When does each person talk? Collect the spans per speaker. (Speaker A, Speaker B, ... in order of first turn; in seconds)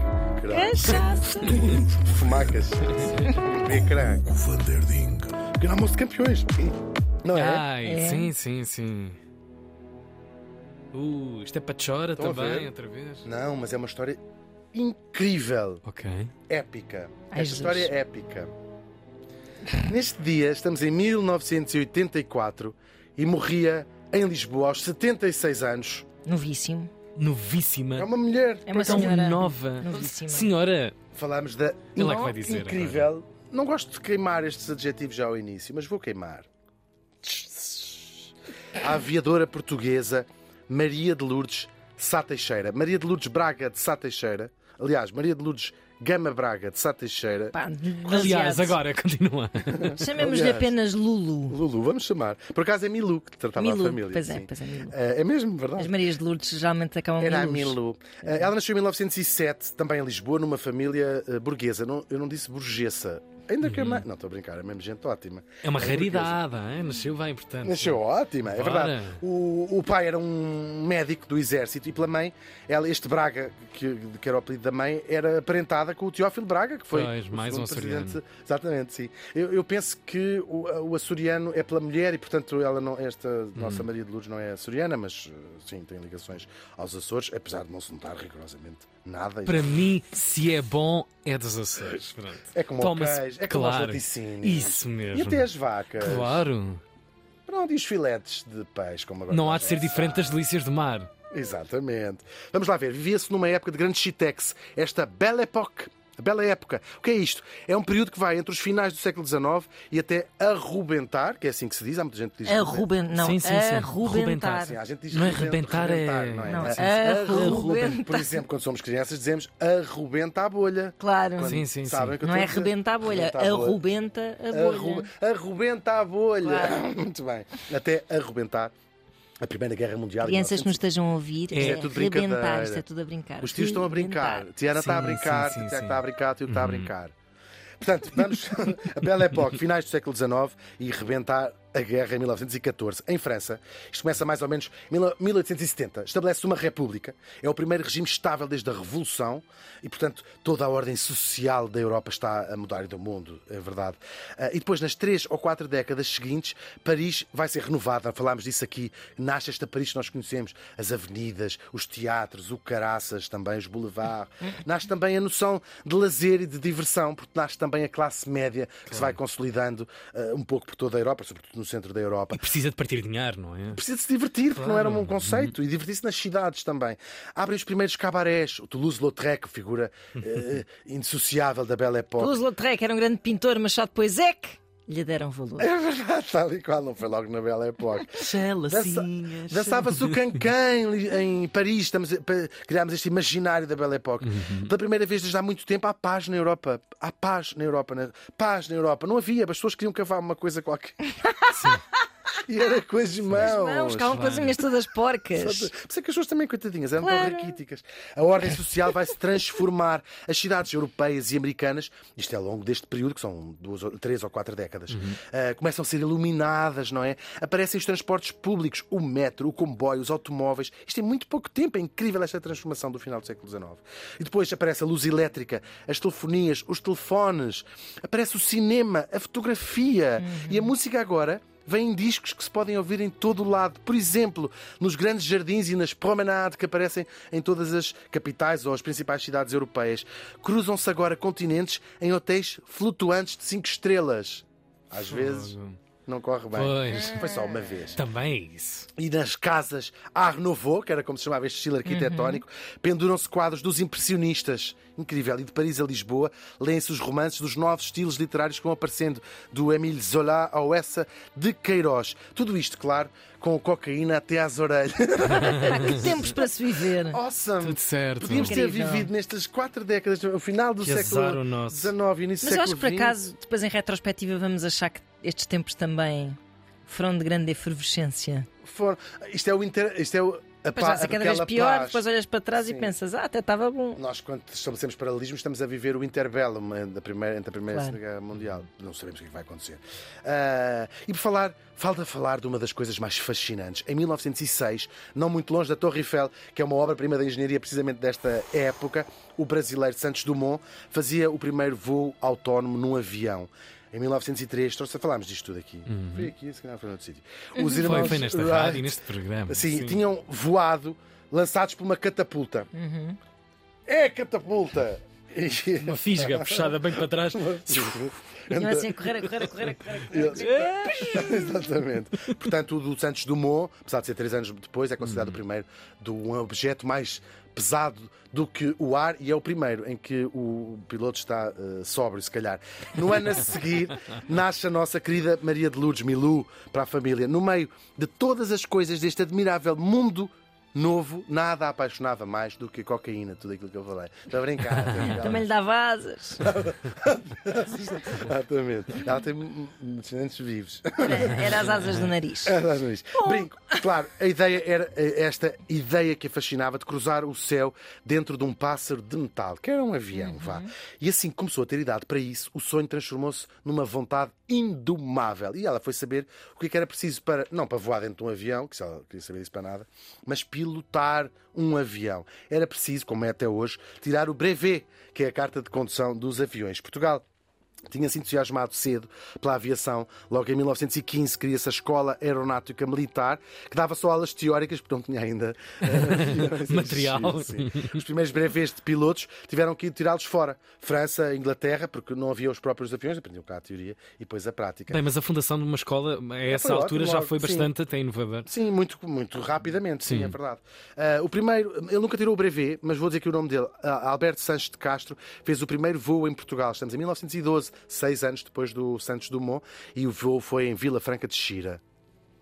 Speaker A: 0.3-4.3, 5.5-7.7, 12.2-12.7, 13.2-14.2, 14.7-15.8, 16.5-18.5, 19.8-26.1, 28.0-29.2, 31.1-36.5, 37.2-47.6, 49.7-50.7, 51.5-56.1, 57.2-66.4, 67.6-89.8, 92.5-96.5, 97.5-100.4, 101.3-112.9, 114.5-123.8, 124.5-128.7, 129.4-130.8, 131.6-132.8, 133.4-137.1, 137.8-172.4, 173.7-182.3, 185.6-201.0, 202.5-204.5, 205.3-245.6, 246.1-248.0, 249.0-273.2, 278.6-282.0, 282.6-282.9, 284.0-312.7, 313.9-345.4, 346.4-351.7, 352.4-377.2, 377.9-395.0, 396.5-397.7, 398.5-411.8
Speaker B: 0.5-1.7, 7.8-8.3, 17.3-17.9, 26.2-26.9, 28.7-30.5, 32.0-32.3, 47.5-48.8, 49.9-51.6, 53.6-55.0, 55.8-58.5, 112.5-114.8, 116.5-118.4, 121.0-121.6, 122.2-125.1, 126.4-126.8, 130.2-134.5, 182.2-185.7, 203.4-205.7, 207.0-207.6, 230.2-230.7, 251.9-252.4, 265.5-267.2, 268.4-269.1, 272.4-278.5, 280.8-284.0, 287.7-288.0, 307.6-308.1, 312.7-313.2, 318.5-321.3, 345.0-346.4, 351.0-352.6, 353.2-353.4, 360.1-360.7
Speaker C: 0.8-1.8, 2.8-3.4, 7.3-9.2, 10.9-13.2, 15.8-16.3, 27.2-28.1, 28.8-30.9, 32.0-33.1, 48.1-50.0, 63.6-64.0, 65.6-69.2, 76.9-78.2, 83.6-83.9, 89.5-95.5, 96.0-96.8, 99.3-101.1, 113.2-117.7, 121.5-122.2, 131.5-131.8, 134.7-136.9, 168.9-169.2, 172.3-173.8, 174.5-175.5, 188.1-190.3, 194.2-194.7, 201.5-201.8, 204.1-204.6, 214.9-215.2, 245.0-245.8, 246.5-247.2, 247.9-248.9, 265.4-266.0, 267.6-268.6, 270.8-271.9, 305.9-306.3, 307.7-310.0, 315.8-318.1, 320.4-321.6, 325.0-325.4, 345.0-345.3, 351.6-352.0, 385.8-388.0, 394.9-398.5, 400.1-400.4
Speaker D: 1.8-2.3, 3.7-5.4